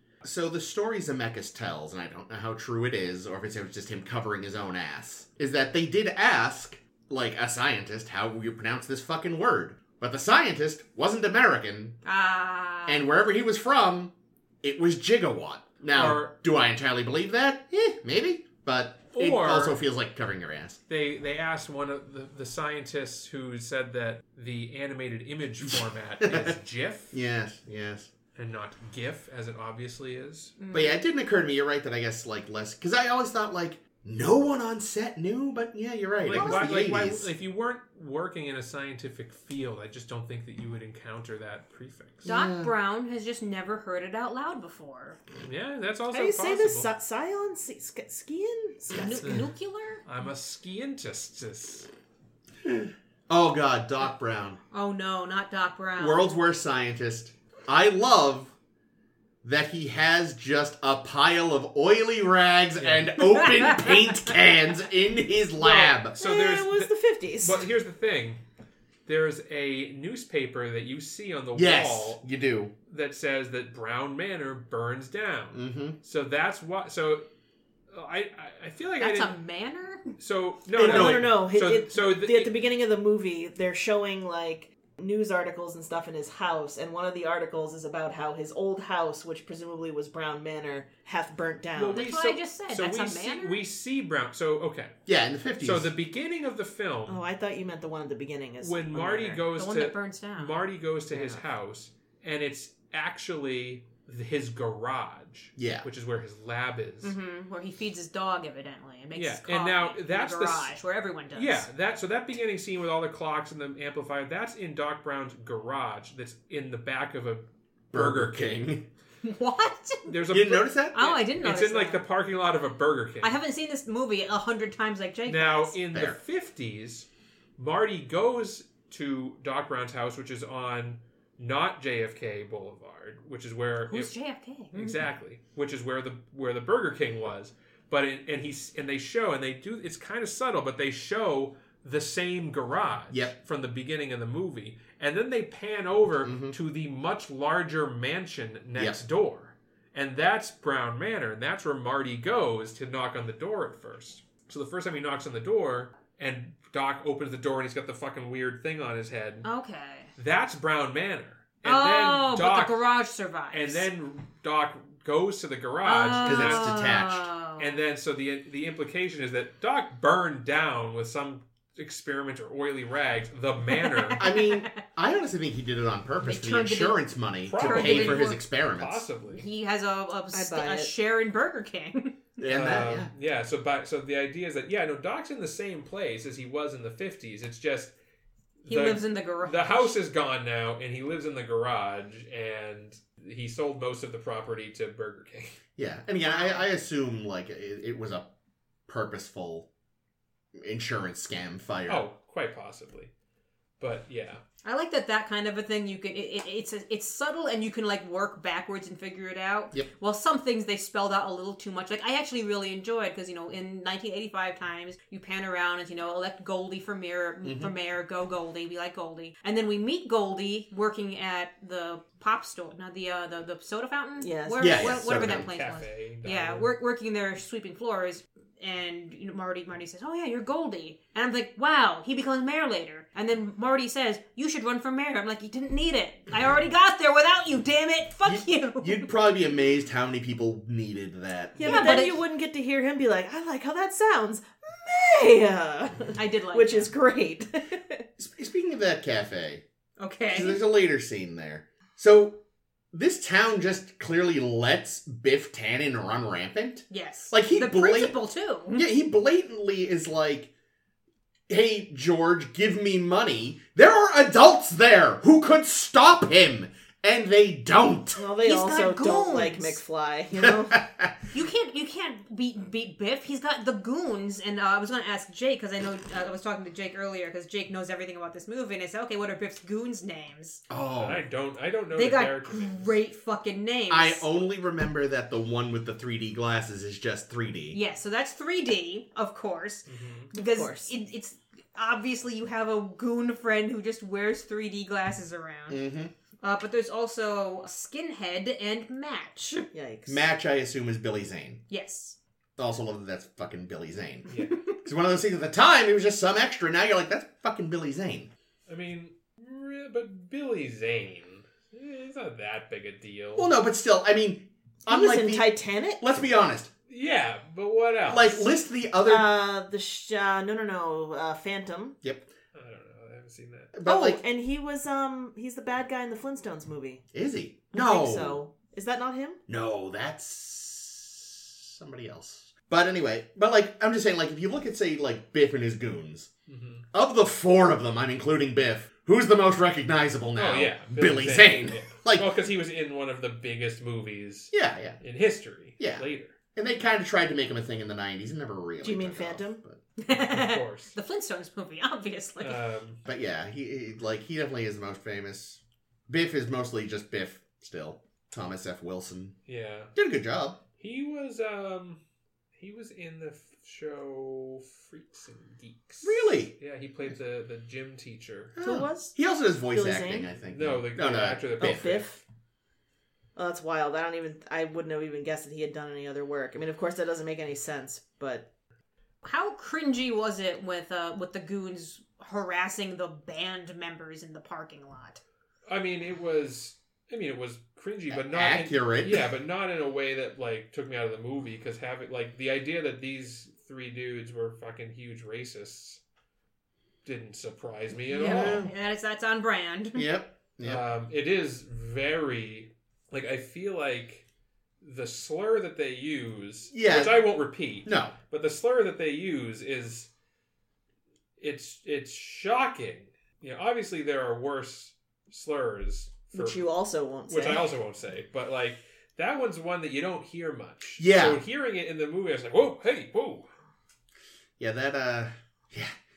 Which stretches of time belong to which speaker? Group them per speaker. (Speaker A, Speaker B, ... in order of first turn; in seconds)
Speaker A: 0.2-12.0, 12.8-20.8, 26.2-26.6, 27.1-28.1, 30.7-37.3, 42.2-42.7, 52.6-54.6, 56.0-58.5, 59.4-66.2, 71.5-72.7, 75.5-76.0, 80.8-81.3, 95.0-95.9, 105.6-105.9, 117.9-118.8, 120.3-121.1, 125.9-126.2, 146.2-146.6, 148.8-149.0, 166.2-167.3, 174.2-179.0, 182.4-183.1, 195.8-198.3, 198.9-199.7, 200.6-202.1, 217.4-217.7, 224.6-225.5, 238.2-242.0, 248.2-249.6, 250.3-252.4, 252.9-258.1, 258.7-260.5, 261.5-268.2, 270.4-271.2, 280.7-281.2, 283.9-287.8, 295.7-296.1, 300.1-301.6, 302.6-304.3, 304.8-308.3, 313.4-316.7, 318.1-319.3, 322.0-322.3, 323.7-324.2, 327.1-328.4, 329.5-336.3, 336.9-342.3, 344.5-345.0, 345.8-349.8, 353.1-359.3, 359.9-360.6, 366.0-366.5, 368.6-371.9, 388.1-389.3, 398.2-398.7, 399.9-400.8, 406.7-407.3, 407.8-408.1, 421.0-421.4, 424.6-425.9
Speaker B: 12.0-13.1, 30.6-31.0, 36.3-36.7, 42.2-45.2, 48.9-50.0, 54.7-56.3, 63.4-64.0, 79.0-80.1, 91.9-93.6, 99.3-100.6, 107.0-111.7, 119.2-120.2, 120.9-122.0, 123.2-125.8, 133.9-135.0, 159.4-160.1, 161.6-163.9, 165.8-167.8, 173.7-174.7, 176.2-177.0, 177.6-178.4, 179.3-182.2, 188.7-189.9, 196.2-196.7, 204.6-239.1, 241.6-242.2, 246.1-246.9, 250.0-250.6, 256.9-258.9, 268.4-269.8, 271.3-280.6, 281.9-284.2, 287.7-295.8, 296.4-299.6, 301.7-302.2, 350.0-352.6, 379.2-385.2, 398.1-400.1
Speaker C: 15.9-16.3, 19.1-19.8, 20.9-27.1, 28.4-30.5, 36.2-42.3, 45.4-46.9, 50.0-51.9, 62.8-63.2, 66.2-68.4, 69.0-72.2, 72.9-77.2, 77.9-79.3, 80.1-82.5, 91.7-95.0, 95.6-97.2, 98.6-107.2, 109.1-110.7, 111.3-118.7, 120.1-123.4, 125.3-134.1, 134.7-159.5, 160.2-162.8, 163.5-166.9, 167.6-174.2, 177.4-179.5, 182.4-187.9, 188.6-195.6, 201.9-203.1, 203.8-204.4, 224.8-226.7, 281.0-282.9, 289.9-290.3, 304.3-304.6, 308.7-313.5, 316.9-318.5, 322.5-323.7, 336.5-336.9, 340.4-346.4, 350.1-350.9, 352.4-353.0, 359.4-359.9, 360.8-362.0, 362.5-368.6, 370.4-372.1, 385.7-396.0, 397.0-398.6, 400.6-404.2, 404.8-410.1, 411.4-416.6, 417.3-423.5
Speaker D: 46.1-49.4, 65.6-67.7, 80.7-92.1, 97.0-99.4, 180.3-180.9, 224.2-224.8, 241.6-248.0, 268.1-270.8, 290.3-290.9, 299.7-300.3, 314.9-316.1, 319.0-321.9, 323.8-327.0, 327.7-329.4, 348.8-349.6, 368.6-369.1, 369.7-370.3, 371.6-372.2, 373.4-378.5, 416.3-417.7